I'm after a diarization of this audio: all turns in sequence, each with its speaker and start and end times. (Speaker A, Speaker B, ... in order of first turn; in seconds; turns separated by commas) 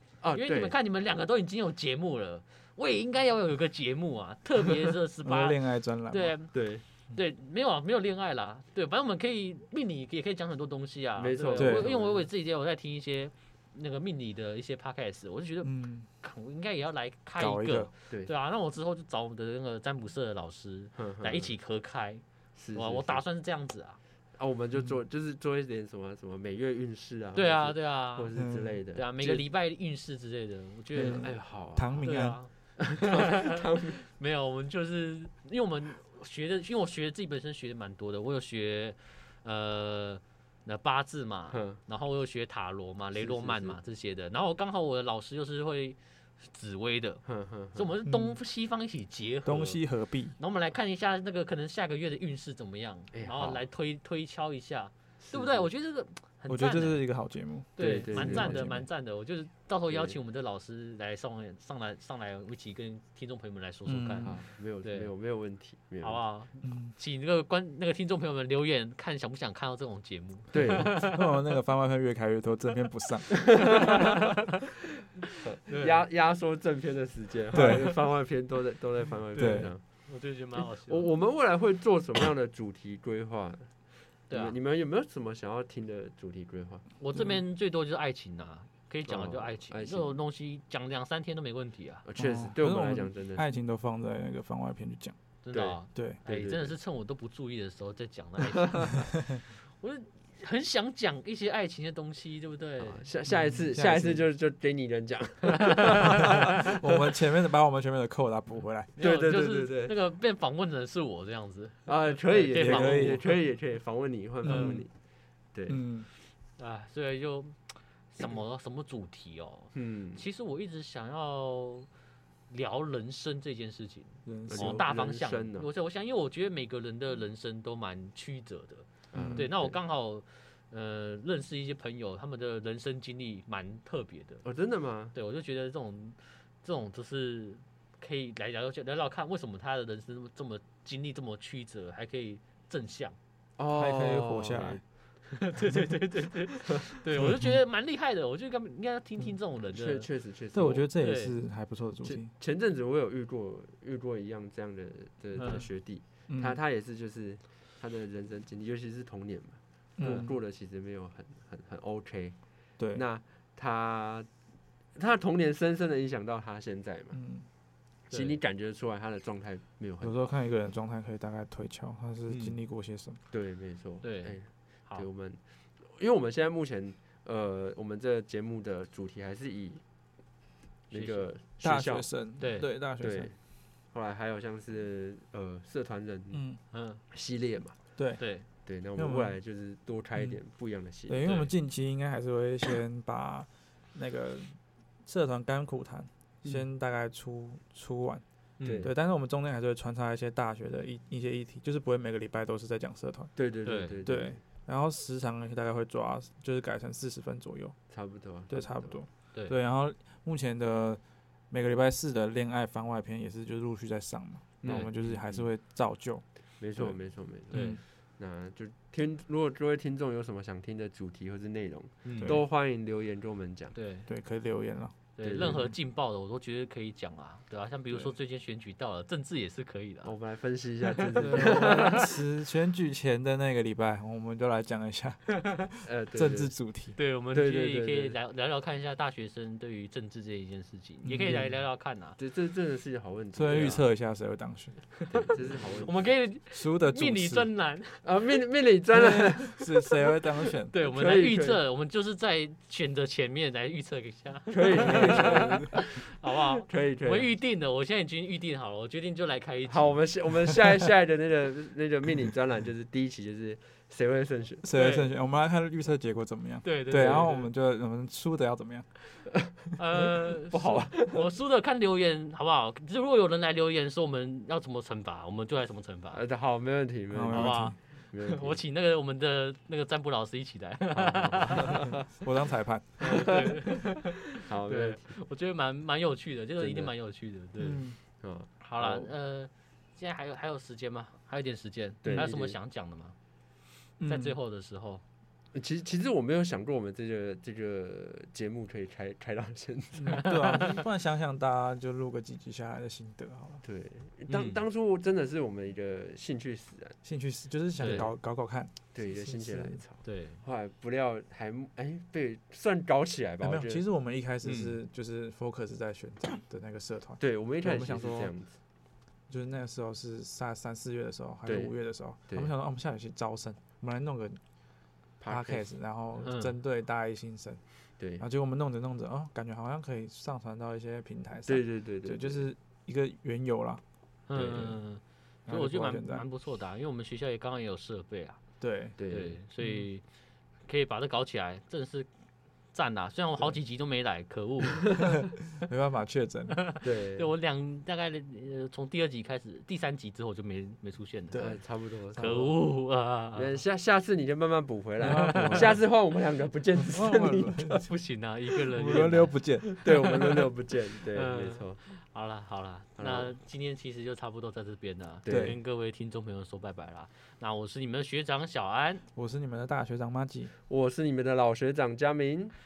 Speaker A: 0.2-0.8, Speaker B: 0.3-6.6, Speaker C: 5.2-6.3, Speaker A: 6.5-6.8, Speaker B: 7.1-24.0, Speaker A: 11.2-12.2, Speaker C: 11.6-11.9, Speaker C: 15.6-16.1, Speaker C: 17.4-17.9, Speaker A: 20.9-21.5, Speaker A: 22.5-23.2, Speaker A: 24.4-29.4, Speaker B: 27.3-31.4, Speaker C: 28.3-28.8, Speaker A: 30.9-32.2, Speaker C: 31.0-32.4, Speaker B: 32.0-47.2, Speaker A: 32.8-34.0, Speaker A: 41.5-41.8, Speaker A: 43.1-43.8, Speaker A: 47.2-47.9, Speaker B: 47.7-49.8, Speaker C: 48.0-48.4, Speaker C: 49.4-50.4, Speaker B: 50.3-57.0, Speaker A: 53.1-53.6, Speaker A: 55.2-55.7, Speaker C: 56.5-58.9, Speaker B: 57.8-65.1, Speaker A: 57.8-58.6, Speaker A: 59.9-60.2, Speaker C: 63.9-64.4, Speaker A: 64.2-66.2, Speaker B: 66.0-71.2, Speaker C: 66.6-66.9, Speaker A: 70.5-71.0, Speaker C: 71.0-73.8, Speaker A: 73.4-74.1, Speaker B: 73.6-74.3, Speaker A: 75.4-86.9, Speaker B: 75.7-76.0, Speaker B: 77.5-78.0, Speaker C: 77.5-78.0, Speaker B: 79.3-81.1, Speaker C: 79.3-79.7, Speaker B: 84.3-84.5, Speaker B: 87.0-92.0, Speaker C: 87.1-87.4, Speaker A: 89.1-90.1, Speaker A: 92.0-93.4, Speaker C: 92.2-95.2, Speaker B: 95.4-103.0, Speaker A: 95.5-96.8, Speaker C: 95.9-96.2, Speaker A: 102.8-106.3, Speaker C: 103.3-104.3, Speaker C: 106.2-108.9, Speaker B: 109.0-113.2, Speaker A: 109.0-109.9, Speaker A: 111.8-114.9, Speaker C: 112.5-113.2, Speaker C: 114.4-114.8, Speaker B: 114.4-114.8, Speaker A: 115.5-115.8, Speaker C: 115.7-116.1, Speaker B: 116.6-121.9, Speaker A: 119.7-120.2, Speaker B: 122.5-134.4, Speaker C: 124.2-124.9, Speaker A: 124.5-125.7, Speaker A: 129.1-129.8, Speaker C: 129.1-129.5, Speaker A: 134.4-135.1, Speaker B: 135.1-143.2, Speaker A: 143.6-144.8, Speaker C: 143.7-144.8, Speaker B: 145.2-150.1, Speaker C: 147.2-147.6, Speaker A: 149.7-150.9, Speaker C: 150.5-152.3, Speaker B: 151.0-151.3, Speaker A: 152.0-162.4, Speaker B: 155.3-155.7, Speaker C: 156.3-156.6, Speaker C: 160.0-160.3, Speaker B: 160.0-160.3, Speaker A: 162.9-164.3, Speaker A: 164.9-167.2, Speaker C: 167.1-167.4, Speaker B: 168.1-168.4, Speaker A: 168.1-170.2, Speaker C: 170.0-173.2, Speaker B: 172.3-172.6, Speaker A: 173.3-179.8, Speaker B: 174.0-175.1, Speaker A: 180.9-183.3, Speaker B: 180.9-181.2, Speaker C: 181.6-183.3, Speaker B: 182.4-182.7, Speaker A: 183.9-187.8, Speaker C: 186.3-186.6, Speaker B: 186.7-187.0, Speaker C: 188.0-188.2, Speaker B: 188.2-188.4, Speaker A: 188.6-191.4, Speaker C: 188.9-189.4, Speaker C: 191.1-198.2, Speaker B: 191.2-191.5, Speaker B: 198.6-198.9, Speaker A: 198.6-198.9, Speaker C: 198.8-203.3, Speaker A: 203.3-204.4, Speaker B: 203.6-204.0, Speaker C: 204.0-207.8, Speaker A: 207.9-209.0, Speaker C: 208.5-216.2, Speaker A: 214.6-215.0, Speaker B: 214.7-215.4, Speaker A: 216.6-223.8, Speaker C: 217.5-217.8, Speaker B: 217.5-217.8, Speaker B: 222.0-222.4, Speaker B: 223.7-224.1, Speaker C: 224.1-225.6, Speaker B: 225.2-230.1, Speaker A: 225.2-225.7, Speaker A: 230.0-232.1, Speaker B: 230.9-232.1, Speaker C: 231.2-236.9, Speaker A: 235.8-236.5, Speaker B: 236.9-242.2, Speaker A: 237.3-238.2, Speaker C: 241.0-241.5, Speaker A: 242.2-243.8, Speaker C: 243.3-245.3, Speaker B: 243.5-243.8, Speaker B: 245.1-248.0, Speaker A: 245.1-246.1, Speaker C: 246.5-247.5, Speaker A: 248.0-251.6, Speaker C: 248.9-250.7, Speaker B: 250.7-260.0, Speaker A: 254.5-255.9, Speaker C: 255.0-255.4, Speaker A: 256.6-257.3, Speaker A: 259.6-264.6, Speaker C: 264.6-268.9, Speaker B: 264.7-265.1, Speaker B: 266.6-267.5, Speaker A: 266.9-267.4, Speaker B: 269.8-276.2, Speaker A: 270.5-271.3, Speaker A: 276.1-278.6, Speaker C: 277.1-277.8, Speaker B: 277.3-281.9, Speaker A: 280.9-282.0, Speaker C: 281.8-283.0, Speaker B: 283.0-287.8, Speaker A: 283.0-283.6, Speaker A: 284.3-285.2, Speaker A: 286.6-286.9, Speaker C: 287.6-288.0, Speaker A: 288.2-289.1, Speaker B: 288.6-293.1, Speaker A: 292.0-292.6, Speaker C: 294.0-294.4, Speaker B: 294.0-295.0, Speaker A: 295.5-300.2, Speaker C: 300.0-303.6, Speaker B: 300.1-300.8, Speaker A: 303.6-307.0, Speaker B: 304.3-304.6, Speaker C: 307.0-309.8, Speaker B: 307.8-308.1, Speaker A: 307.8-308.1, Speaker A: 308.9-313.8, Speaker B: 310.0-310.4, Speaker C: 313.4-318.3, Speaker B: 314.4-314.7, Speaker A: 317.2-318.6, Speaker C: 319.3-324.4, Speaker A: 321.4-322.5, Speaker A: 325.2-325.7, Speaker C: 325.2-327.6, Speaker B: 326.2-326.5, Speaker A: 328.0-328.2, Speaker C: 328.2-333.8, Speaker A: 331.4-332.4, Speaker B: 334.3-338.4, Speaker A: 334.3-334.8, Speaker C: 335.5-336.2, Speaker C: 338.6-338.9, Speaker A: 339.0-339.4, Speaker B: 339.1-340.0, Speaker C: 339.6-339.9, Speaker B: 340.7-342.1, Speaker B: 342.7-344.9, Speaker C: 345.0-346.6, Speaker B: 346.6-351.6, Speaker A: 346.8-347.3, Speaker C: 351.3-351.6, Speaker A: 351.4-352.6, Speaker C: 352.1-352.4, Speaker B: 352.1-353.5, Speaker A: 353.3-357.9, Speaker C: 355.0-355.8, Speaker B: 355.0-355.7, Speaker C: 356.8-357.9, Speaker B: 357.8-360.4, Speaker C: 358.7-359.7, Speaker A: 358.8-361.8, Speaker B: 361.1-369.0, Speaker A: 363.0-363.3, Speaker A: 365.2-365.6, Speaker C: 365.3-365.6, Speaker C: 369.1-370.5, Speaker A: 370.7-372.5